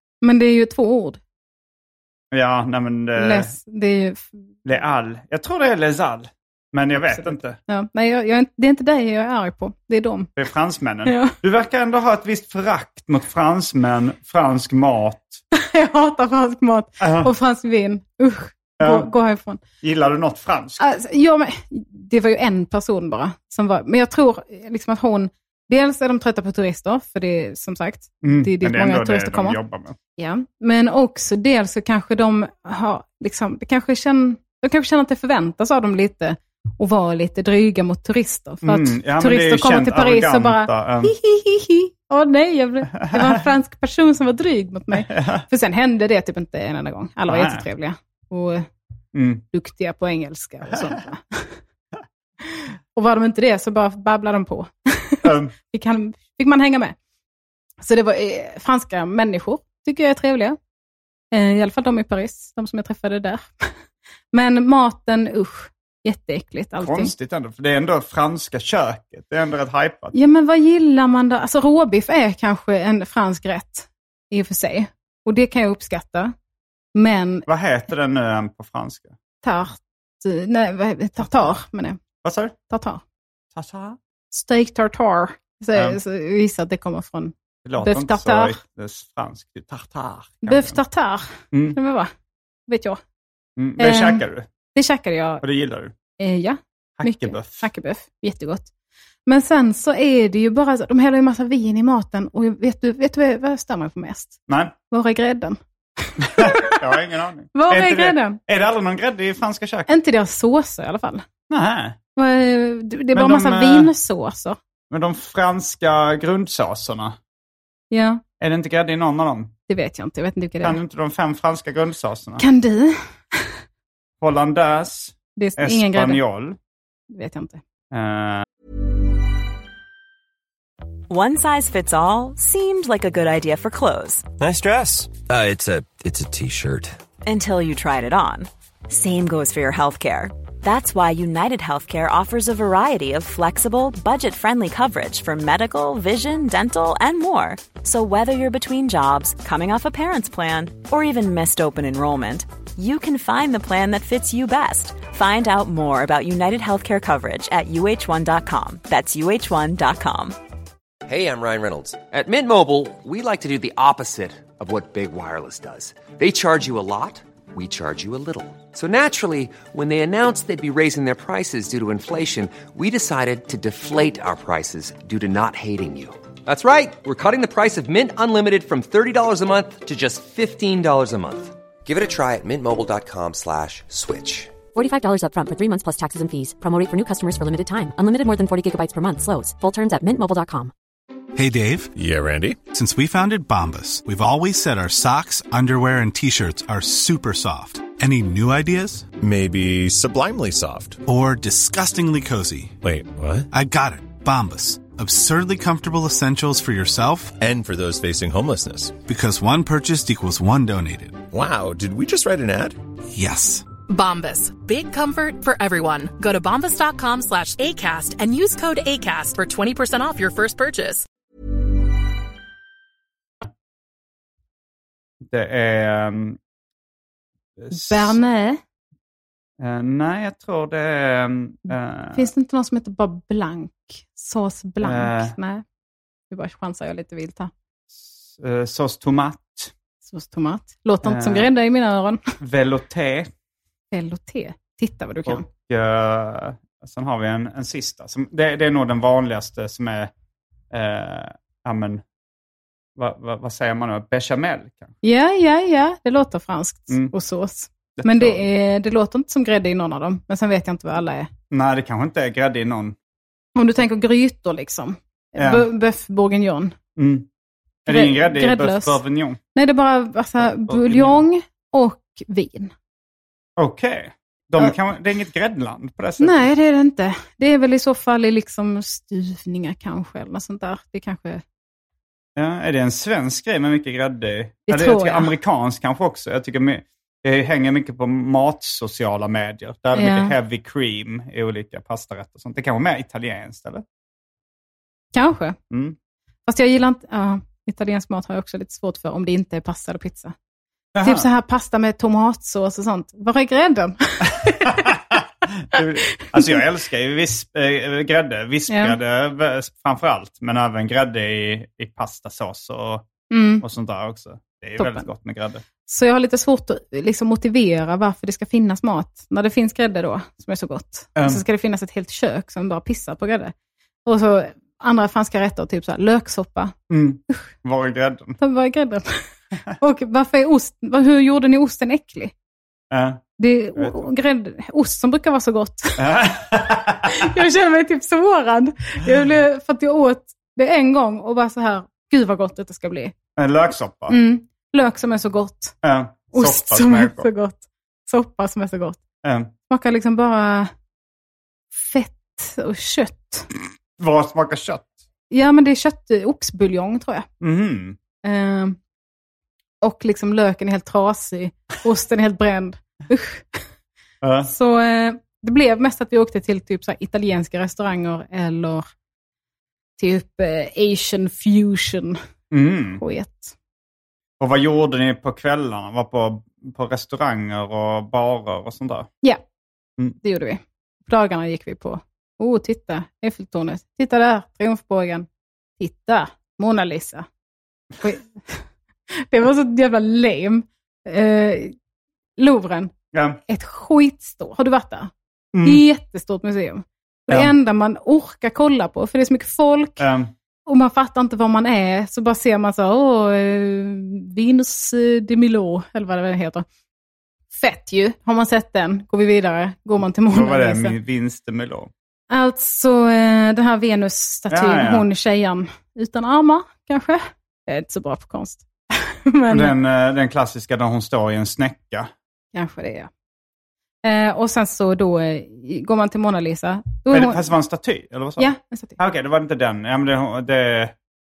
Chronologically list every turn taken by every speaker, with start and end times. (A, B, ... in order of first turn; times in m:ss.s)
0:00.2-0:01.2 A
0:02.3-0:03.5 B
0:03.2-0:04.5 A
0:04.6-0:07.6 B
0:07.0-0:10.3 A
0:10.4-0:15.4 B
0:11.0-0:11.4 A
0:15.5-0:19.6 A
0:17.0-0:17.3 B
0:18.8-0:19.1 B
0:19.8-0:20.8 B
0:20.8-0:29.6 A
0:28.2-0:30.0 B
0:30.2-0:48.7 A
0:38.6-0:41.1 B
0:43.0-0:43.4 B
0:44.9-0:45.4 B
0:47.3-0:47.6 B
0:49.1-0:49.4 B
0:49.5-0:51.5 A
0:52.9-0:57.0 A
0:55.2-0:55.5 B
0:57.8-1:00.6 A
1:01.3-1:03.7 A
1:04.3-1:07.1 A
1:06.8-1:10.1 B
1:10.1-1:16.3 A
1:16.9-1:17.4 A
1:17.5-1:19.2 B
1:19.4-1:22.0 A
1:22.2-1:22.5 B
1:22.7-1:23.0 A
1:23.5-1:24.0 B
1:24.3-1:28.6 A
1:25.7-1:26.0 B
1:27.6-1:30.8 B
1:30.4-1:32.1 A
1:31.5-1:31.8 B
1:32.7-1:33.0 A
1:33.6-1:34.5 B
1:33.8-1:34.2 A
1:34.7-1:35.4 A
1:35.4-1:35.9 B
1:36.2-1:38.7 A
1:37.0-1:37.7 B
1:39.3-1:44.4 A
1:44.5-1:44.7 B
1:44.9-1:47.0 A
1:46.2-1:49.9 B
1:47.5-1:48.4 A
1:49.9-1:51.2 A
1:51.5-1:52.0 B
1:52.2-1:54.6 A
1:53.1-1:53.9 B
1:54.9-1:57.2 B
1:57.9-1:58.2 A
1:58.4-1:59.5 B
1:59.7-2:00.8 A
2:00.6-2:02.4 B
2:02.4-2:03.5 A
2:04.2-2:06.6 B
2:05.4-2:06.2 A
2:07.1-2:07.6 A
2:07.9-2:08.4 B
2:11.1-2:14.2 C
2:14.4-2:17.0 D
2:17.2-2:40.4 C
2:41.1-3:04.6 E
3:04.7-3:10.7 F
3:11.3-3:11.9 G
3:12.0-3:12.6 H
3:12.7-3:19.1 G
3:19.2-3:21.0 H
3:21.0-3:22.8 G
3:22.8-3:23.5 H
3:23.5-3:27.4 G
3:27.4-3:29.0 H
3:29.0-3:31.2 G
3:31.3-3:32.8 H
3:33.1-3:33.7 G
3:33.9-3:41.0 I
3:45.2-3:46.4 B
3:47.6-3:48.2 B
3:47.7-3:48.6 A
3:49.6-3:52.3 B
3:52.1-3:55.6 A
3:54.8-3:55.3 B
3:56.3-3:57.5 A
3:57.9-3:59.7 B
4:00.0-4:02.2 A
4:01.0-4:01.5 B
4:02.4-4:03.3 B
4:03.9-4:05.4 A
4:05.2-4:10.1 B
4:10.7-4:12.0 B
4:13.0-4:14.9 B
4:15.0-4:21.3 A
4:18.0-4:18.4 B
4:21.5-4:23.0 B
4:23.6-4:26.8 A
4:25.4-4:25.6 B
4:27.0-4:27.3 B
4:27.8-4:29.4 B
4:27.9-4:29.0 A
4:29.5-4:32.7 A
4:30.4-4:31.2 B
4:33.6-4:36.5 B
4:36.2-4:41.4 A
4:42.4-4:53.8 B
4:44.7-4:45.3 A
4:49.9-4:50.3 A
4:55.1-4:55.6 A
4:55.7-4:56.0 B
4:56.5-5:00.3 A
5:00.9-5:01.2 B
5:01.0-5:04.9 A
5:04.6-5:13.1 B
5:08.7-5:09.0 A
5:13.3-5:13.6 A
5:13.6-5:15.6 B
5:14.8-5:15.1 A
5:15.8-5:23.5 A
5:21.2-5:21.4 B
5:24.0-5:26.8 A
5:26.9-5:28.4 B
5:28.4-5:32.3 A
5:32.9-5:33.2 B
5:33.4-5:36.0 A
5:33.8-5:34.0 B
5:36.0-5:37.3 B
5:37.0-5:43.1 A
5:43.4-5:44.2 B
5:44.1-5:45.8 A
5:45.8-5:47.3 B
5:46.3-5:49.0 A
5:49.2-5:49.5 B
5:49.7-5:50.7 A
5:51.7-5:53.5 A
5:54.0-5:54.9 B
5:55.3-5:57.3 A
5:57.4-5:58.0 B
5:58.2-5:58.8 A
5:59.8-6:03.6 A
6:04.2-6:04.5 B
6:04.4-6:08.9 A
6:10.0-6:12.2 A
6:12.5-6:13.0 B
6:13.0-6:13.5 A
6:14.4-6:19.1 B
6:20.2-6:25.3 A
6:25.8-6:27.2 A
6:28.0-6:28.6 A
6:29.1-6:31.7 A
6:32.4-6:32.9 A
6:33.1-6:33.4 B
6:33.5-6:35.1 A
6:35.5-6:35.8 B
6:35.6-6:40.0 A
6:40.0-6:40.3 B
6:40.6-6:46.6 A
6:47.5-6:51.0 A
6:50.3-6:51.9 B
6:52.3-6:59.7 A
6:54.5-6:55.0 B
6:59.5-7:02.1 B
7:02.5-7:03.1 A
7:04.0-7:07.4 A
7:07.1-7:10.9 B
7:08.4-7:09.0 A